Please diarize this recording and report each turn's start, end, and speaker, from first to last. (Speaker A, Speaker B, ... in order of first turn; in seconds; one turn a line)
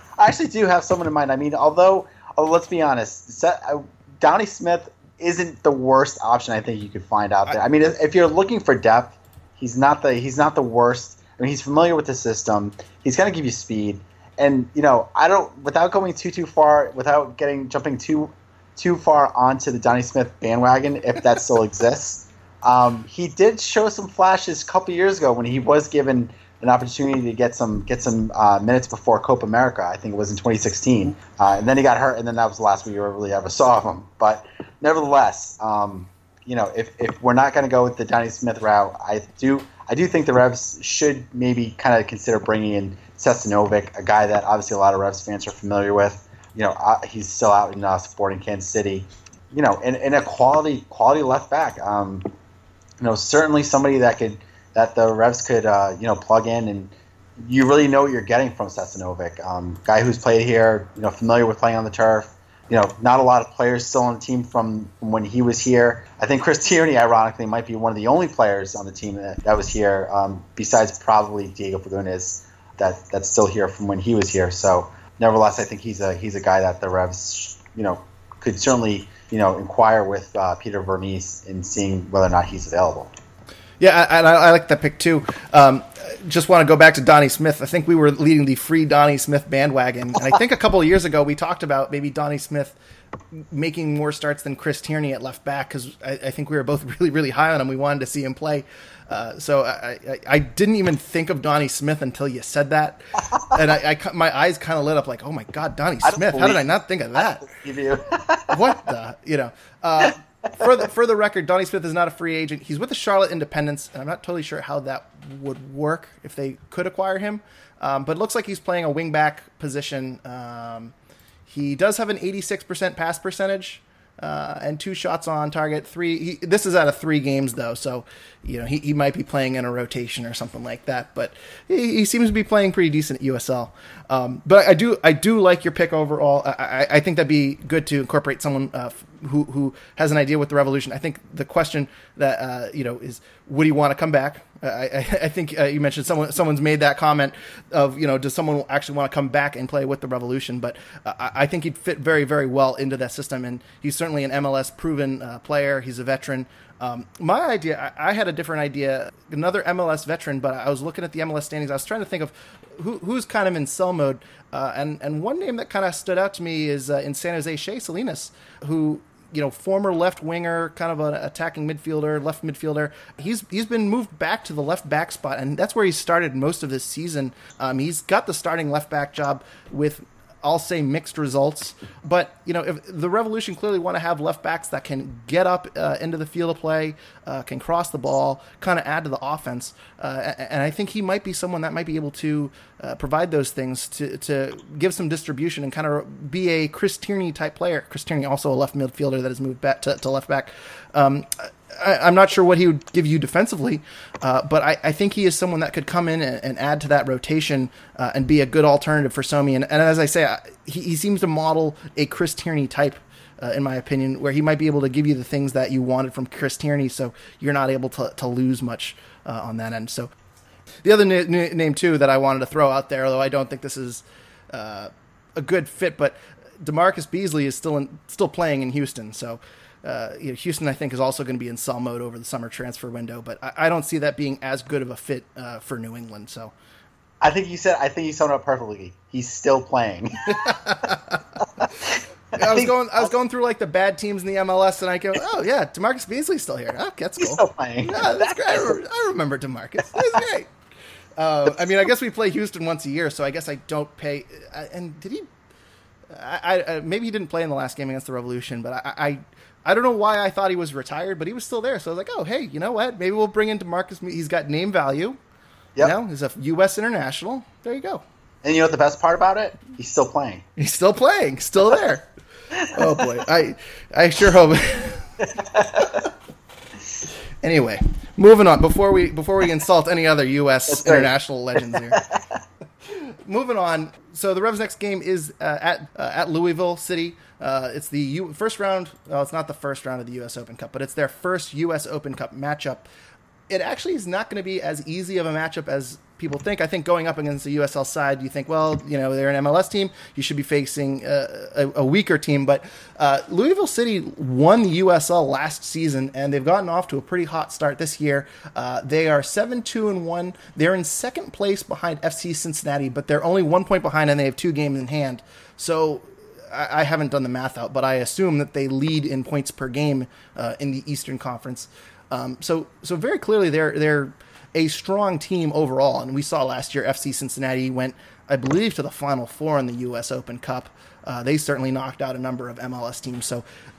Speaker A: 0.2-52.3
Speaker A: 53.0-83.1
Speaker B: 83.8-92.8
Speaker B: 93.3-107.5
Speaker A: 106.0-106.7
Speaker A: 107.2-108.7
Speaker B: 108.5-120.9
Speaker B: 121.5-220.1
Speaker B: 220.8-236.5
Speaker A: 237.2-240.6
Speaker B: 240.3-241.2
Speaker A: 241.6-243.1
Speaker B: 242.3-250.5
Speaker A: 247.2-248.8
Speaker B: 251.2-255.3
Speaker B: 256.1-265.2
Speaker B: 265.8-268.0
Speaker A: 268.4-270.4
Speaker B: 270.6-272.1
Speaker B: 272.7-275.2
Speaker A: 275.4-275.8
Speaker B: 277.4-282.0
Speaker A: 280.7-281.1
Speaker A: 281.7-282.2
Speaker B: 282.9-292.9
Speaker B: 293.5-333.4